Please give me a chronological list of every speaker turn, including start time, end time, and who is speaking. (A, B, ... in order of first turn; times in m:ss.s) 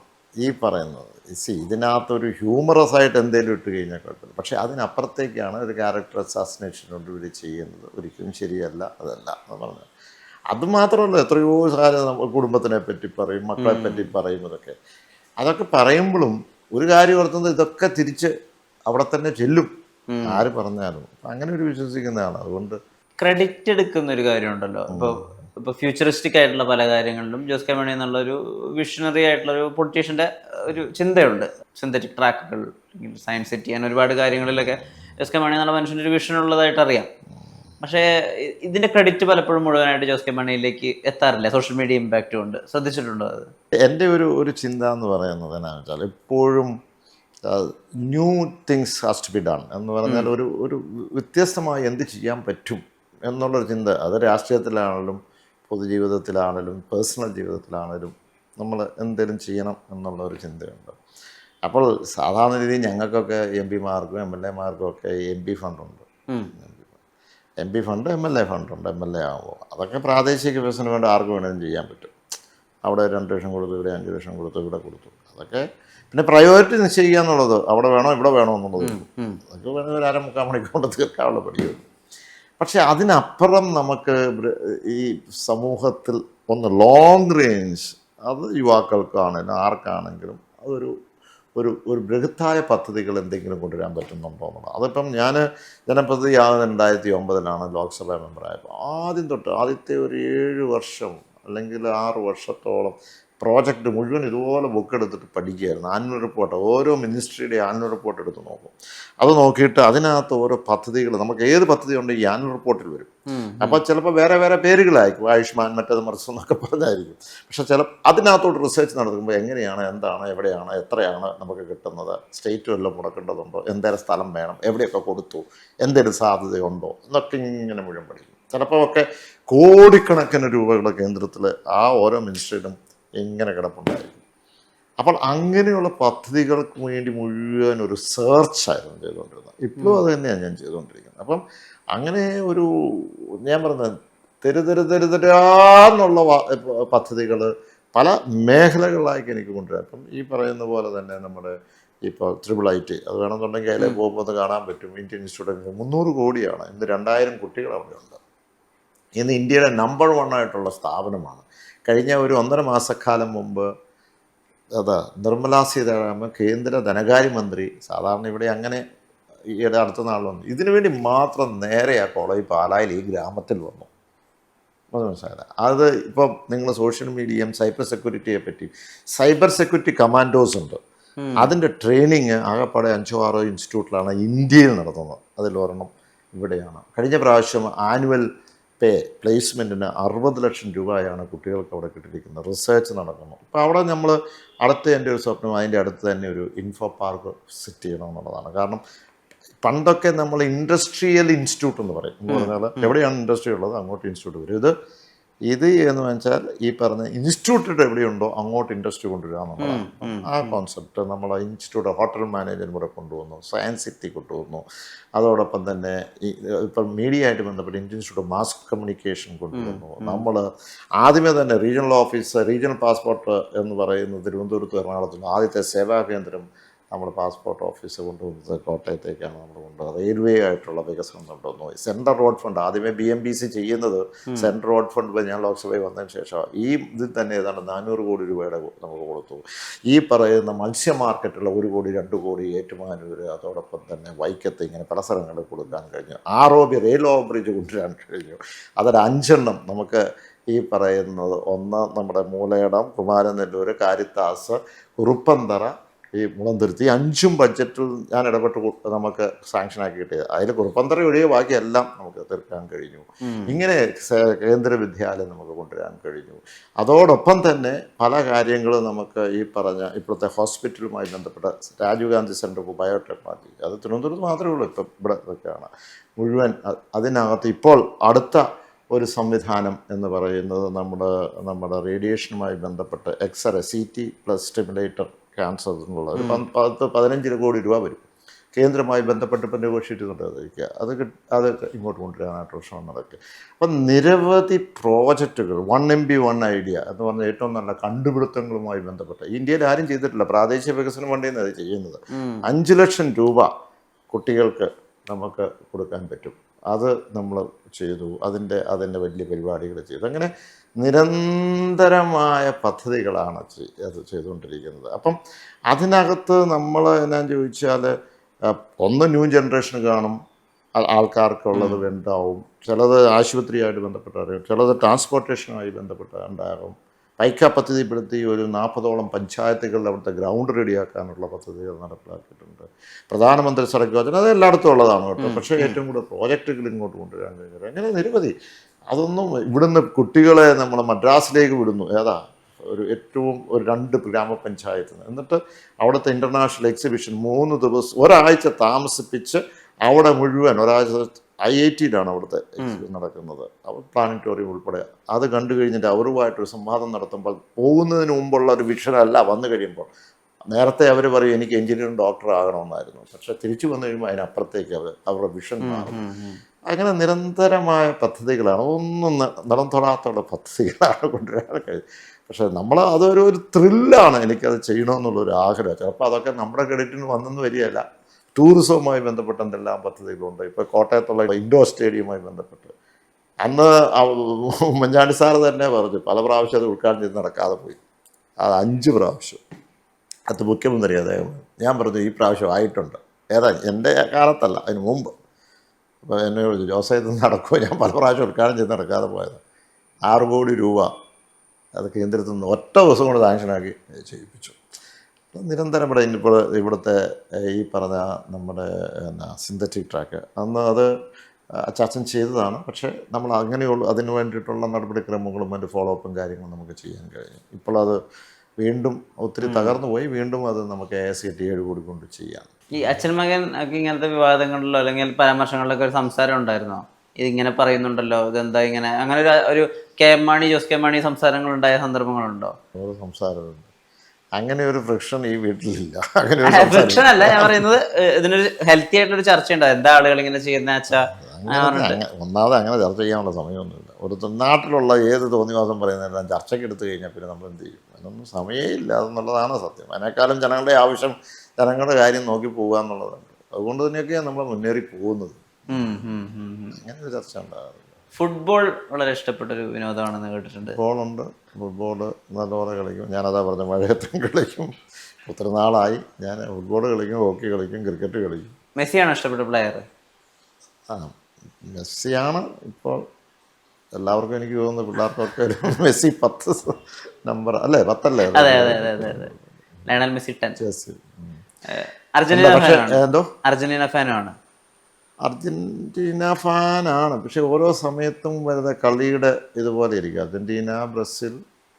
0:00.4-0:09.9 A
0:10.5-0:14.8 A
0:13.6-0:14.1 B
0:15.4-0:18.3 A
0:18.9-0:19.7 A
0:20.1-0:20.4 B
0:20.3-0:22.8 A
0:23.2-0:37.1 B
0:37.8-0:43.5 B
0:43.9-0:46.7 A
0:47.5-1:01.0 A
1:01.6-1:06.9 A
1:07.6-1:12.1 A
1:12.8-1:21.8 A
1:18.8-1:19.4 B
1:22.6-1:30.9 A
1:31.6-1:53.1 A
1:53.3-1:53.8 B
1:53.6-2:14.2 A
2:15.0-2:21.4 A
2:22.0-2:23.9 A
2:24.4-2:31.5 A
2:32.1-2:38.2 A
2:39.2-2:43.7 A
2:44.8-2:48.8 A
2:49.6-2:53.9 A
2:54.9-3:00.8 A
3:01.2-3:01.5 B
3:01.4-3:08.2 A
3:08.8-3:18.8 A
3:19.6-3:24.7 A
3:22.3-3:22.9 B
3:25.5-3:34.6 A
3:29.6-3:30.6 B
3:35.2-3:40.4 A
3:39.5-3:40.2 B
3:41.0-5:03.5 A
4:23.2-4:23.6 B
4:46.2-4:46.4 B
5:02.1-5:02.4 B
5:04.1-5:10.3 A
5:10.8-5:15.2 A
5:15.7-5:17.9 A
5:18.8-5:20.2 A
5:20.8-5:38.3 A
5:21.5-5:21.8 B
5:35.2-5:35.8 B
5:38.9-5:59.9 A
6:00.5-6:06.0 A
6:05.6-6:06.4 B
6:06.7-6:17.8 A
6:18.4-6:22.7 A
6:23.4-6:27.8 A
6:28.4-6:29.4 A
6:30.3-6:35.1 A
6:36.0-6:39.4 A
6:40.1-6:40.9 A
6:41.8-6:44.6 A
6:45.3-6:47.0 A
6:47.5-6:50.9 A
6:51.7-6:58.0 A
6:58.6-7:02.5 A
6:59.4-6:59.8 B
7:02.8-7:12.5 B
7:12.8-7:13.7 A
7:14.4-7:17.6 A
7:16.5-7:22.0 B
7:20.9-7:36.1 A
7:35.7-7:36.8 B
7:36.8-7:37.9 A
7:38.2-7:40.8 B
7:40.8-7:44.7 A
7:45.3-7:48.5 A
7:48.8-7:49.9 B
7:50.9-7:53.0 A
7:54.0-7:59.4 A
7:58.3-7:59.3 B
7:59.9-8:00.6 B
8:00.6-8:01.4 A
8:01.7-8:04.4 B
8:02.3-8:03.3 A
8:05.3-8:11.4 A